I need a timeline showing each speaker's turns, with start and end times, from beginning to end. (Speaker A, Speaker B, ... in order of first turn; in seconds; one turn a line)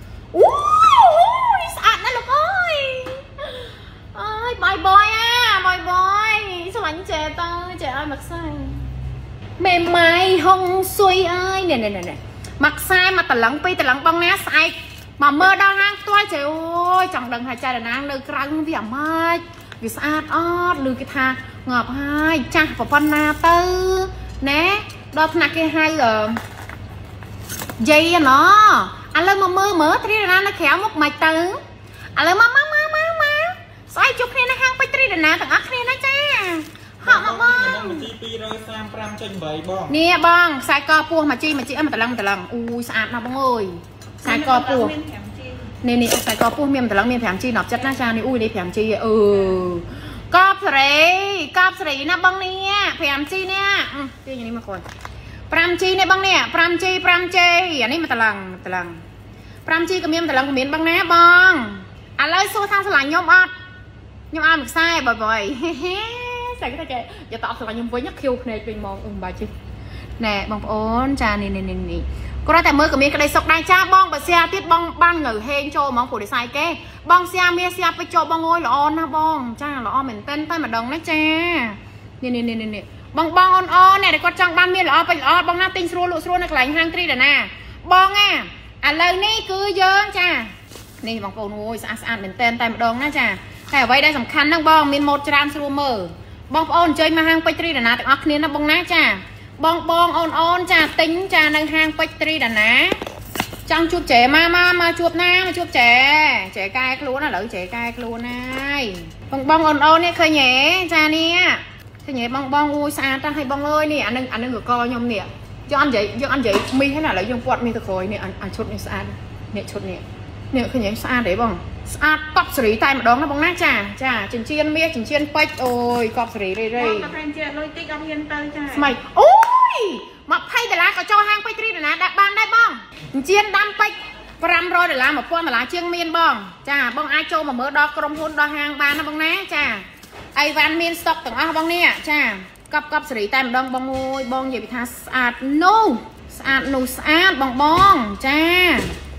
Speaker A: 0.3-8.8
Speaker A: 9.6-26.4
Speaker A: 27.8-31.6
Speaker A: 32.1-38.1
Speaker B: 37.0-39.9
Speaker A: 39.9-44.9
Speaker C: 44.2-45.7
Speaker A: 45.8-54.8
Speaker A: 55.5-59.0
Speaker A: 59.6-63.5
Speaker A: 64.3-69.5
Speaker A: 70.2-103.0
Speaker A: 103.7-127.1
Speaker C: 126.8-128.9
Speaker A: 128.7-148.9